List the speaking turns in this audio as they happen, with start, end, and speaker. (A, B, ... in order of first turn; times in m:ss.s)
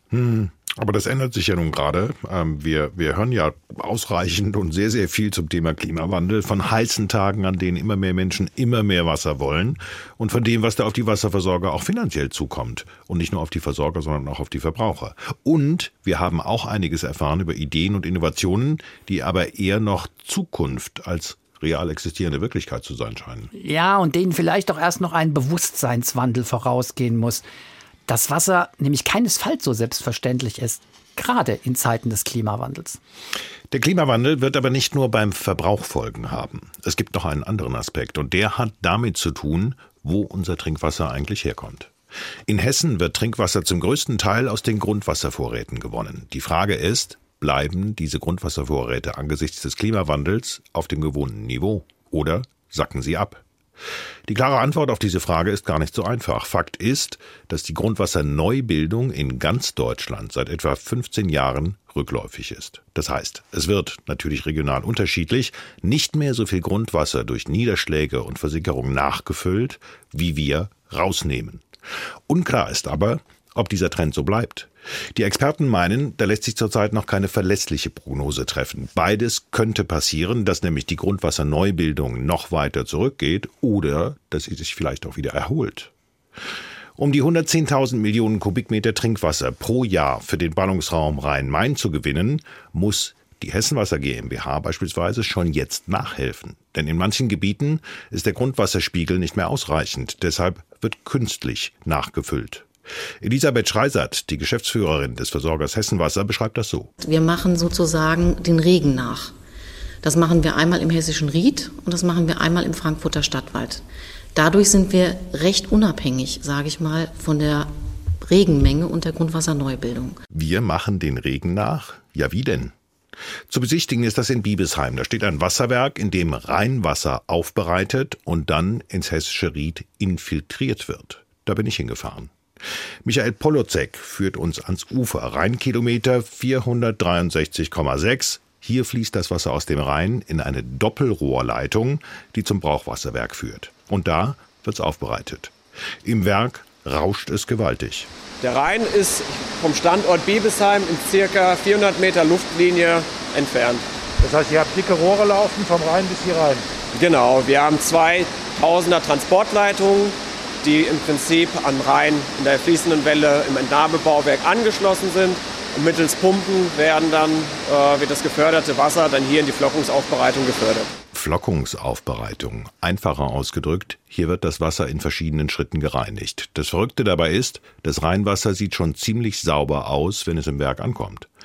0:00.1-0:23.5 A
0:23.5-0:27.4 B
0:28.1-0:33.0 B
0:33.7-0:41.9 A
0:42.5-0:53.4 A
0:54.3-1:11.6 A
1:12.3-1:25.9 A
1:27.0-1:42.7 A
1:43.2-1:46.9 A
1:47.0-1:49.3 C
1:50.0-1:57.7 C
1:58.2-2:00.2 C
2:00.3-2:02.7 A
2:03.5-2:12.3 A
2:13.0-2:28.1 A
2:28.4-2:33.8 D
2:34.2-2:36.7 E
2:36.9-2:50.9 D
2:51.1-3:01.3 A